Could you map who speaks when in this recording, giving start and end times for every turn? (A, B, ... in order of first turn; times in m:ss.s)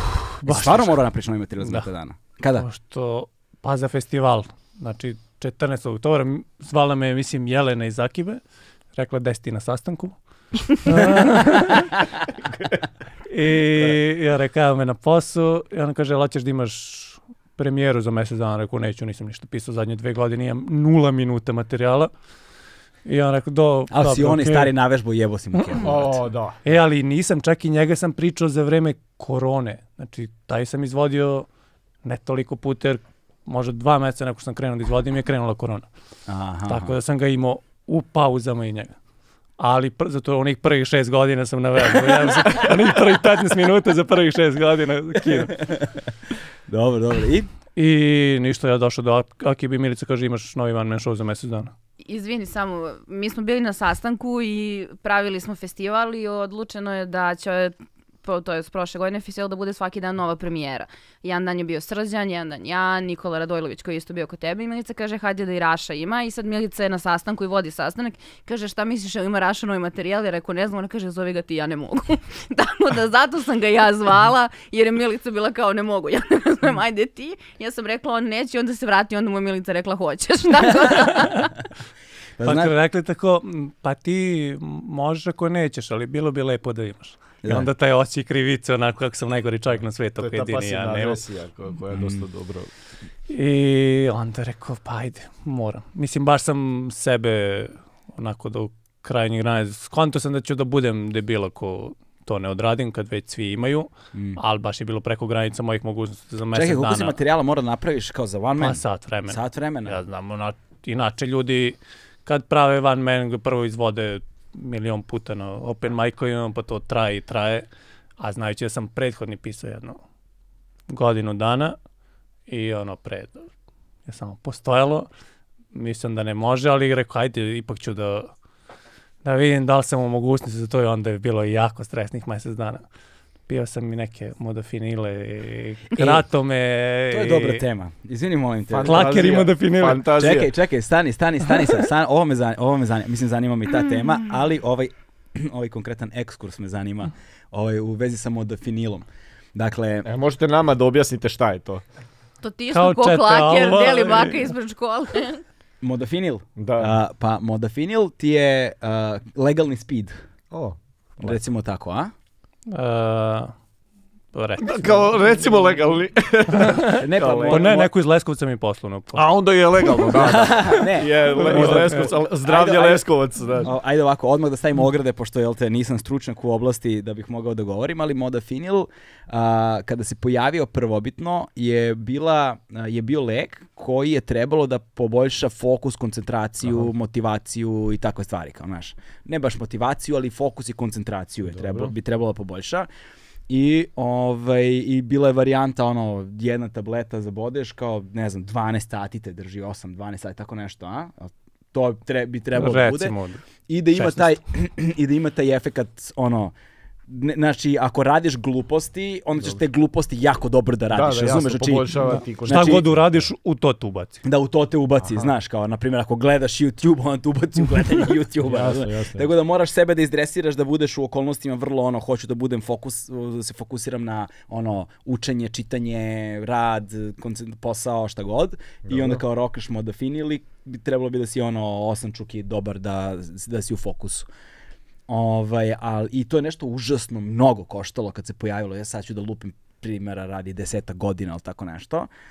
0:00.4-0:01.0 A
0:00.5-0:02.7 B
0:01.6-0:01.9 A
0:02.5-0:08.4 A
0:08.9-0:12.0 A
0:13.3-0:22.1 A
0:23.0-0:24.7 A
0:23.9-0:26.0 B
0:25.5-0:31.5 A
0:25.8-0:26.6 C
0:32.0-0:35.9 A
0:36.3-0:36.9 B
0:36.7-0:38.9 A
0:39.6-0:45.8 A
0:46.7-0:47.5 B
0:47.8-0:51.7 A
0:52.0-1:21.5 D
1:22.4-1:22.7 B
1:22.4-1:31.2 A
1:27.4-1:27.7 B
1:30.2-1:32.7 C
1:31.9-1:32.2 B
1:33.3-1:47.2 A
1:44.1-1:44.4 B
1:46.5-1:50.0 B
1:48.6-1:57.7 A
1:58.2-2:00.0 A
2:00.9-2:01.8 A
2:02.5-2:03.5 A
2:04.1-2:05.1 A
2:05.7-2:08.3 A
2:09.2-2:12.8 A
2:13.5-2:17.6 A
2:15.9-2:16.2 B
2:17.1-2:19.0 B
2:18.7-2:20.5 C
2:18.8-2:20.0 A
2:20.1-2:30.1 B
2:30.0-2:31.8 C
2:32.4-2:35.4 D
2:32.7-2:34.5 A
2:35.8-2:40.2 B
2:36.6-2:36.9 C
2:40.5-2:41.4 C
2:41.2-2:42.1 B
2:42.7-2:43.5 A
2:44.3-2:45.2 A
2:44.6-2:47.8 C
2:46.7-2:46.9 A
2:47.0-2:47.9 B
2:47.5-2:49.2 A
2:49.1-2:53.7 C
2:50.2-2:53.1 B
2:51.3-2:52.2 A
2:53.6-3:12.9 B
3:11.5-3:11.9 C
3:13.5-3:23.2 B
3:22.5-3:24.4 A
3:23.7-3:26.5 B
3:27.1-3:32.9 B
3:30.9-3:33.2 C
3:32.1-3:34.2 A
3:34.2-3:54.3 B
3:35.0-3:35.3 C
3:38.4-3:39.3 C
3:48.9-3:49.2 C
3:55.1-4:02.1 B